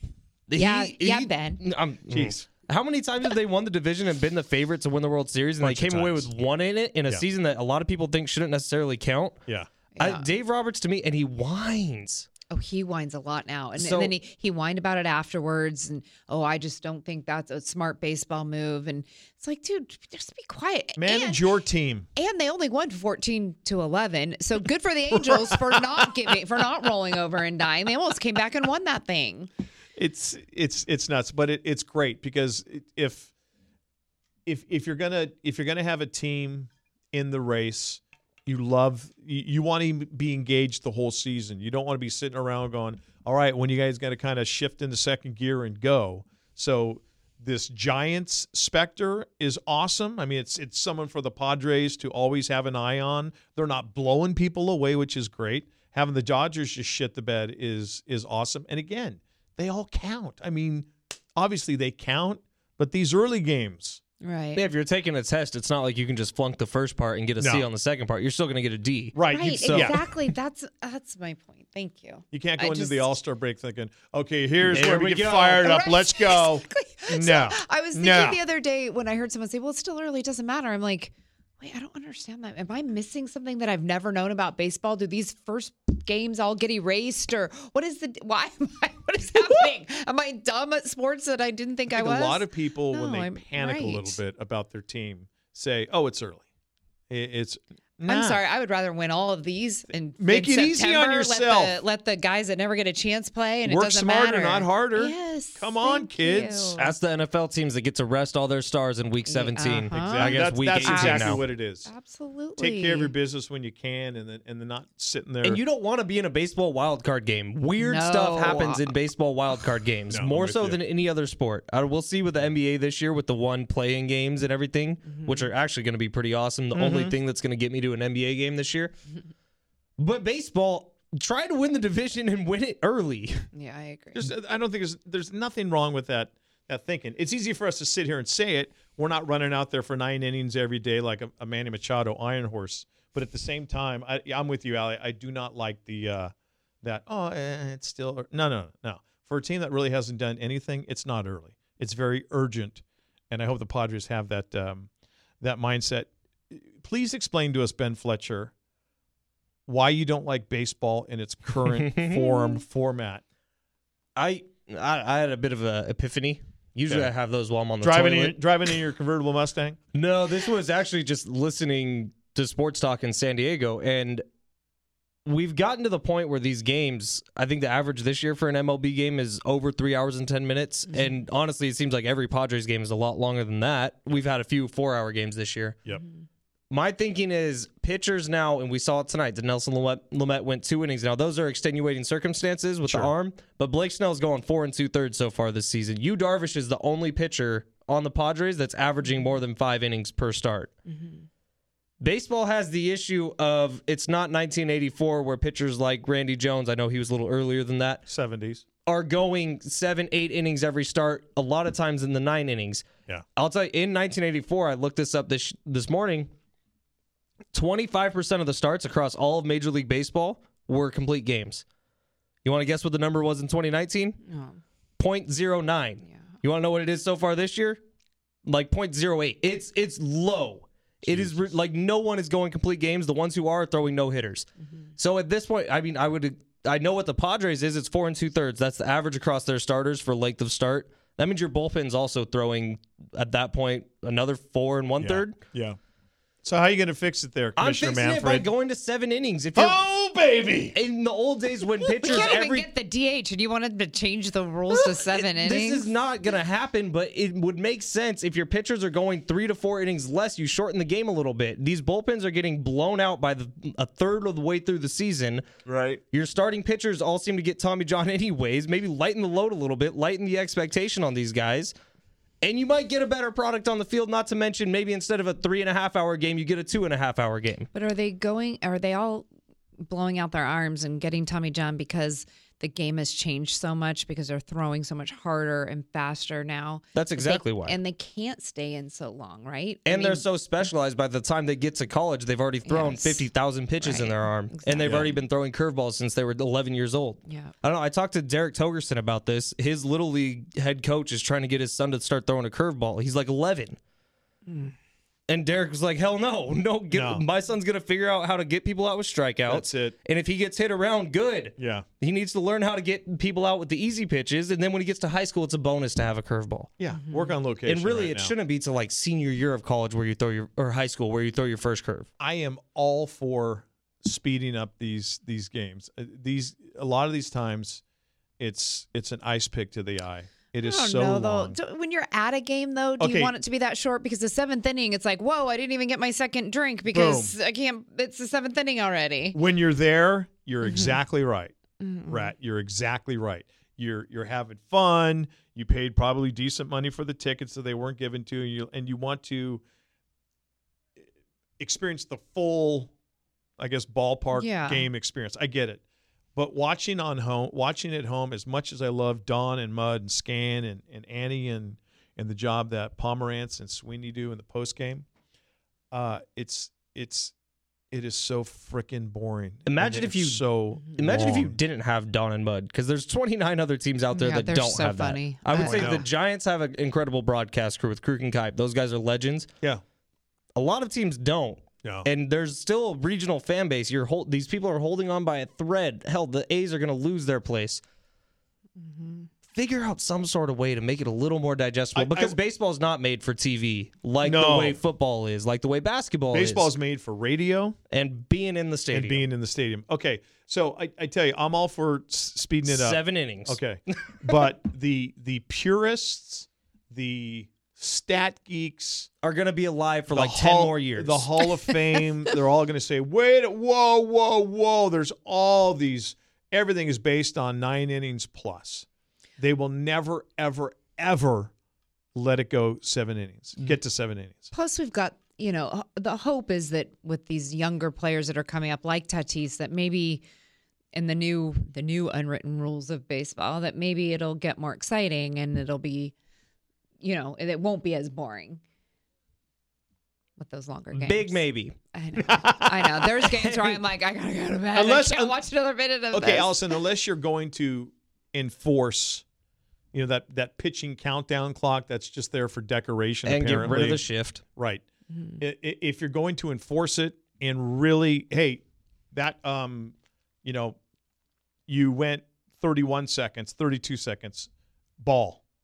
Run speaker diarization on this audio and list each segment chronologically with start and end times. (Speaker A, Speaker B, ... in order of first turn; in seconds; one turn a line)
Speaker A: 0.5-9.4
Speaker B: 0.5-1.6
Speaker C: 2.1-2.4
Speaker C: 5.6-6.3
Speaker B: 9.9-10.3
Speaker A: 10.0-12.3
Speaker B: 12.5-21.4
Speaker A: 13.8-14.1
Speaker C: 21.0-22.1
Speaker B: 22.2-29.5
Speaker C: 25.1-26.3
Speaker C: 30.0-33.3
Speaker C: 34.5-64.0
Speaker B: 64.2-64.6
Speaker A: 64.6-70.0
Speaker C: 67.4-67.7
Speaker C: 69.1-70.0
Speaker B: 69.3-73.1
Speaker C: 72.3-78.4
Speaker A: 74.6-75.8
Speaker B: 75.6-94.2
Speaker C: 91.9-96.5
Speaker C: 97.1-98.4
Speaker B: 98.1-106.9
Speaker C: 100.2-101.8
Speaker C: 103.7-106.8
Speaker A: 106.8-111.4
Speaker B: 109.3-113.1
Speaker C: 109.9-111.9
Speaker C: 112.6-115.6
Speaker A: 115.4-128.9
Speaker B: 117.8-118.8
Speaker C: 120.1-120.8
Speaker B: 125.1-125.5
Speaker C: 126.7-127.2
Speaker A: 130.0-133.5
Speaker B: 133.5-134.3
Speaker C: 134.2-146.3
Speaker C: 146.8-154.9
Speaker C: 155.4-158.5
Speaker C: 159.7-163.2
Speaker A: 161.7-162.5
Speaker A: 164.2-168.4
Speaker C: 167.8-169.8
Speaker A: 169.9-174.2
Speaker A: 175.2-185.8
Speaker A: 186.7-200.7
Speaker C: 192.8-193.1
Speaker B: 200.9-201.2
Speaker A: 202.0-208.0
Speaker C: 208.1-208.7
Speaker A: 208.9-212.8
Speaker A: 213.4-216.3
Speaker A: 217.5-221.6
Speaker A: 222.4-224.2
Speaker B: 224.3-224.6
Speaker A: 225.0-227.8
Speaker A: 228.4-245.4
Speaker C: 231.0-231.5
Speaker C: 245.0-245.8
Speaker C: 246.4-248.5
Speaker A: 247.6-249.8
Speaker C: 249.6-250.8
Speaker A: 250.7-252.7
Speaker C: 251.8-252.3
Speaker B: 252.0-255.9
Speaker A: 254.7-265.4
Speaker C: 265.7-266.0
Speaker A: 266.1-271.7
Speaker A: 272.4-277.7
Speaker B: 277.7-279.3
Speaker B: 279.8-290.2
Speaker A: 286.9-287.8
Speaker A: 289.9-303.8
Speaker B: 292.7-293.3
Speaker B: 293.8-295.1
Speaker C: 294.8-295.1
Speaker B: 297.3-297.5
Speaker B: 304.5-304.7
Speaker A: 305.3-316.7
Speaker C: 306.9-307.2
Speaker C: 309.5-310.0
Speaker C: 311.6-311.9
Speaker C: 316.8-318.3
Speaker B: 316.9-317.3
Speaker A: 317.7-322.1
Speaker C: 322.2-327.8
Speaker C: 328.4-331.6
Speaker B: 330.6-339.4
Speaker C: 333.0-333.3
Speaker C: 336.9-337.4
Speaker C: 339.3-341.6
Speaker B: 340.6-341.0
Speaker B: 341.8-342.3
Speaker C: 342.1-349.6
Speaker C: 351.6-352.9
Speaker C: 353.6-355.8
Speaker B: 354.3-354.9
Speaker C: 356.4-365.1
Speaker C: 365.9-367.3
Speaker C: 367.9-371.6
Speaker A: 369.7-370.4
Speaker A: 370.9-379.5
Speaker B: 374.1-376.1
Speaker C: 375.6-376.1
Speaker A: 380.6-387.8
Speaker B: 388.8-389.3
Speaker A: 389.5-396.7
Speaker C: 391.9-392.4
Speaker C: 394.2-394.8
Speaker C: 396.3-397.8
Speaker A: 397.9-399.2
Speaker C: 398.9-409.1
Speaker A: 402.7-404.3
Speaker A: 409.2-411.3
Speaker C: 410.1-418.9
Speaker C: 419.4-421.5
Speaker C: 422.1-424.5
Speaker B: 424.5-430.2
Speaker B: 430.9-436.1
Speaker B: 437.0-438.6
Speaker B: 440.4-441.4
Speaker A: 440.9-441.8
Speaker B: 441.9-446.7
Speaker C: 442.2-442.9
Speaker A: 443.5-443.8
Speaker C: 444.7-445.4
Speaker C: 446.1-449.2
Speaker C: 449.9-454.1
Speaker A: 453.2-454.4
Speaker C: 454.6-454.8
Speaker B: 455.1-455.4
Speaker C: 455.4-460.8
Speaker C: 461.7-465.4